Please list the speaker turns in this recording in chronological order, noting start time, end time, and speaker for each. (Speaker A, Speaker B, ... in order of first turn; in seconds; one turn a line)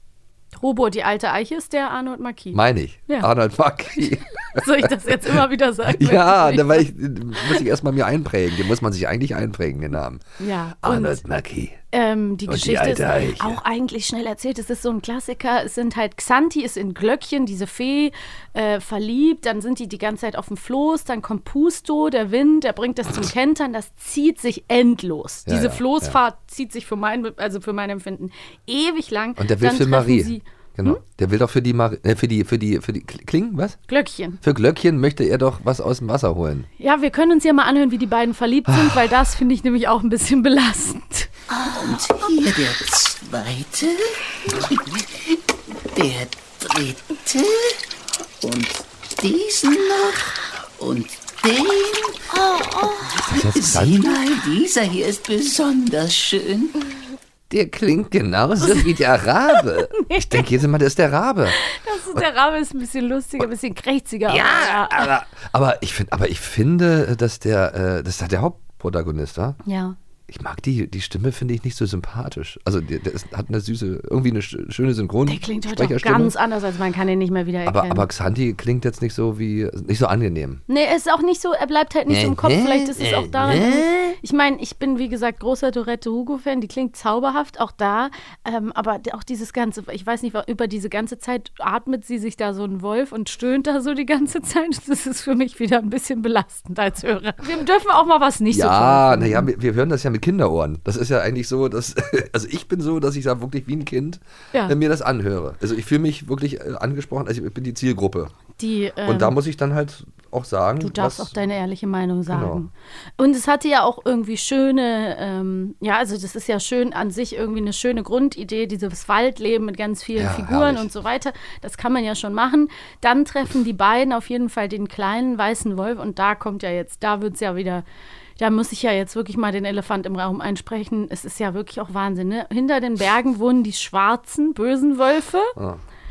Speaker A: 0.6-3.3
Speaker B: 2.5-4.9
Speaker A: 4.5-6.9
Speaker B: 5.9-10.2
Speaker A: 10.4-11.2
Speaker B: 10.8-11.8
Speaker A: 11.9-31.0
Speaker B: 12.5-13.6
Speaker B: 25.5-26.2
Speaker B: 29.4-33.8
Speaker A: 33.9-34.4
Speaker B: 34.4-36.7
Speaker A: 36.8-41.3
Speaker B: 38.7-39.1
Speaker C: 41.5-45.0
Speaker C: 45.8-47.8
Speaker C: 48.4-56.8
Speaker B: 53.3-54.2
Speaker B: 57.5-61.6
Speaker A: 60.0-60.5
Speaker A: 61.6-65.1
Speaker B: 64.3-69.6
Speaker A: 69.6-70.0
Speaker B: 70.3-76.3
Speaker A: 75.3-78.1
Speaker B: 77.7-80.6
Speaker A: 80.7-99.5
Speaker B: 82.1-83.9
Speaker B: 98.5-108.3
Speaker A: 108.6-109.4
Speaker B: 109.0-111.3
Speaker A: 110.8-127.8
Speaker B: 112.3-112.6
Speaker B: 120.2-120.9
Speaker A: 128.4-135.6
Speaker B: 135.6-135.8